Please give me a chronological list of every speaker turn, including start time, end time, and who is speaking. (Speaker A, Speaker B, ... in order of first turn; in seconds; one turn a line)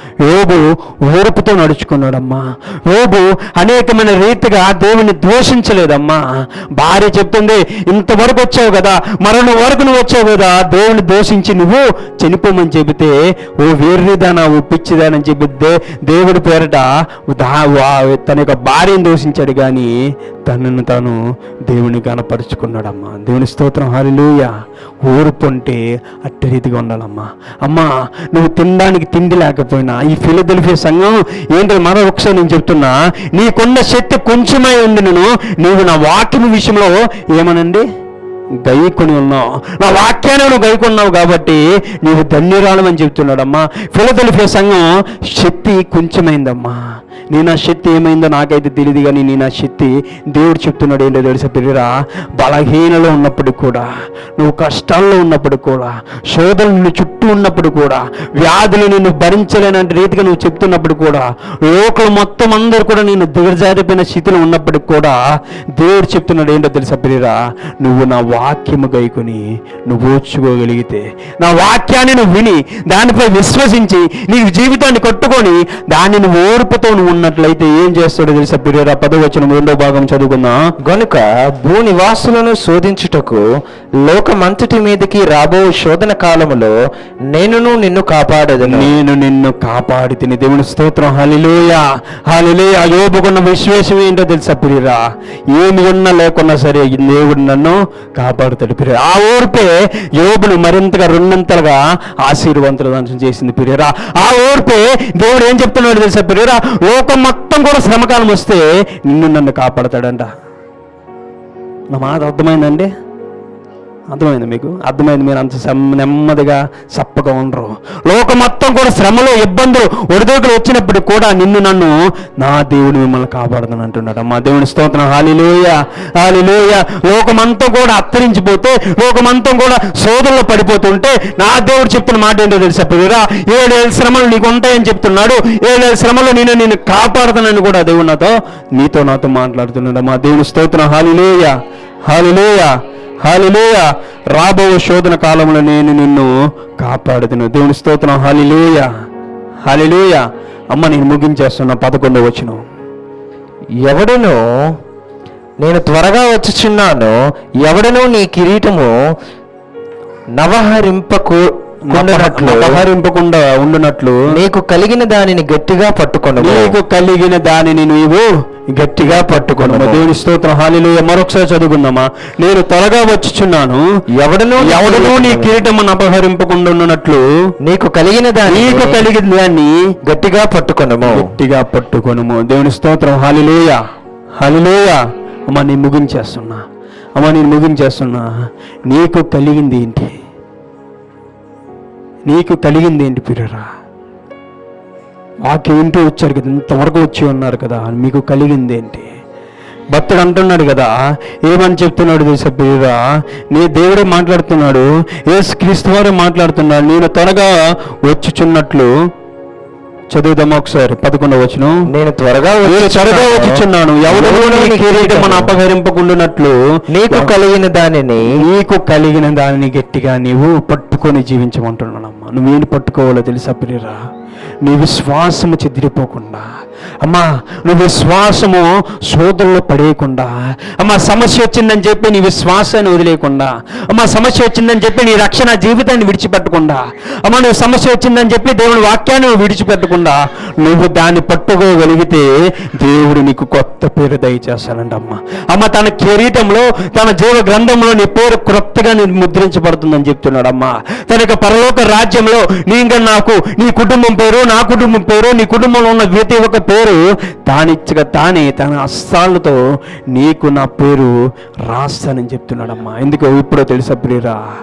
Speaker A: 0.2-19.9
Speaker A: 20.4-37.8
Speaker A: 38.6-65.2
Speaker A: 65.7-80.6
Speaker B: 80.8-83.4
Speaker B: 84.0-86.8
Speaker B: 87.3-88.9
Speaker A: 88.7-110.3
Speaker A: 111.9-112.9
Speaker A: 114.1-148.9
Speaker A: 149.7-152.6
Speaker B: 153.8-154.7
Speaker B: 155.6-159.0
Speaker B: 160.4-162.8
Speaker A: 161.9-164.3
Speaker B: 164.3-166.8
Speaker A: 166.4-173.8
Speaker B: 169.0-170.1
Speaker B: 174.1-175.6
Speaker A: 174.6-177.2
Speaker B: 177.6-179.0
Speaker A: 178.5-179.9
Speaker B: 180.0-181.2
Speaker A: 181.0-183.8
Speaker A: 184.4-186.6
Speaker A: 187.2-188.3
Speaker A: 188.8-190.1
Speaker A: 192.3-193.7
Speaker A: 195.4-199.1
Speaker A: 199.9-208.9
Speaker A: 210.1-211.9
Speaker B: 211.9-215.6
Speaker A: 212.6-217.3
Speaker B: 216.9-218.3
Speaker A: 218.2-224.0
Speaker A: 224.6-226.5
Speaker A: 227.0-259.6
Speaker A: 260.1-261.1
Speaker A: 261.6-264.4